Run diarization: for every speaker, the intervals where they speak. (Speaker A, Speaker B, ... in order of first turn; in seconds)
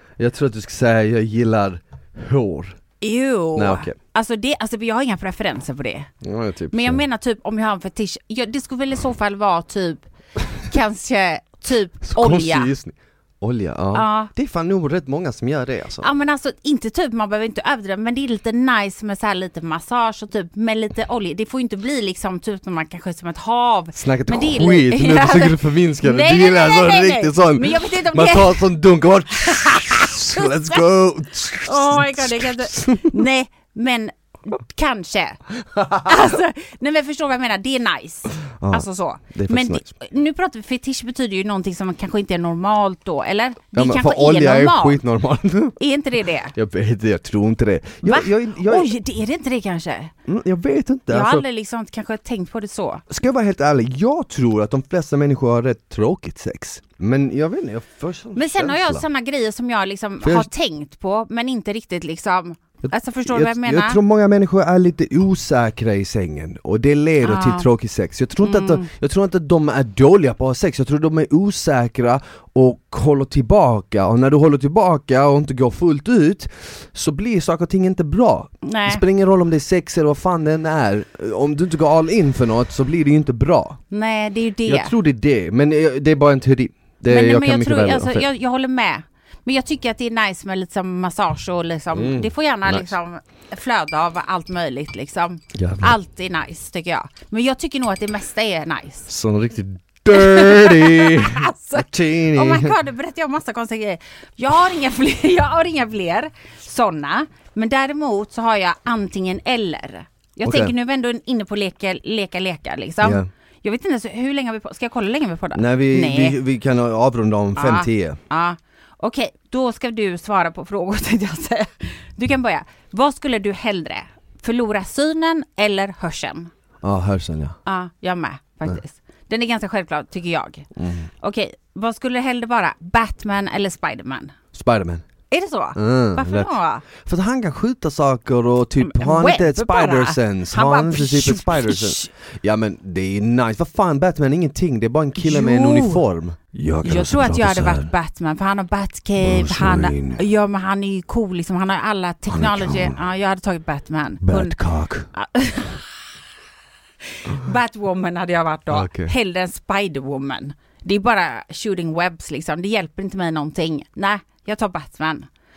Speaker A: 0.2-2.8, 3.5-4.0, 6.2-7.0, 12.0-16.1, 24.0-33.2, 35.8-36.1, 38.6-39.9, 43.8-45.8, 46.5-48.9, 50.3-51.4, 53.1-59.0, 60.2-60.5, 62.8-83.8, 84.7-88.3, 91.9-93.0, 95.5-96.0, 99.1-102.8, 110.4-110.7, 113.0-113.3, 115.5-118.2, 126.8-127.6, 130.8-131.1, 134.5-135.0, 135.8-147.9, 149.2-150.2, 152.3-153.0, 154.2-155.1, 158.7-159.1
Speaker B: 3.0-6.1, 6.7-12.7, 13.9-14.3, 16.0-28.7, 29.4-30.8, 31.6-35.4, 36.0-45.0, 45.8-46.5, 48.0-50.1, 51.1-53.0, 58.4-64.0, 67.2-67.7, 68.4-68.9, 78.6-79.0, 83.9-84.9, 87.1-99.1, 100.1-116.4, 117.6-126.5, 127.7-130.7, 131.2-134.4, 135.3-136.9, 138.8-142.1, 145.2-146.0, 146.8-154.6, 155.1-155.9, 157.2-165.3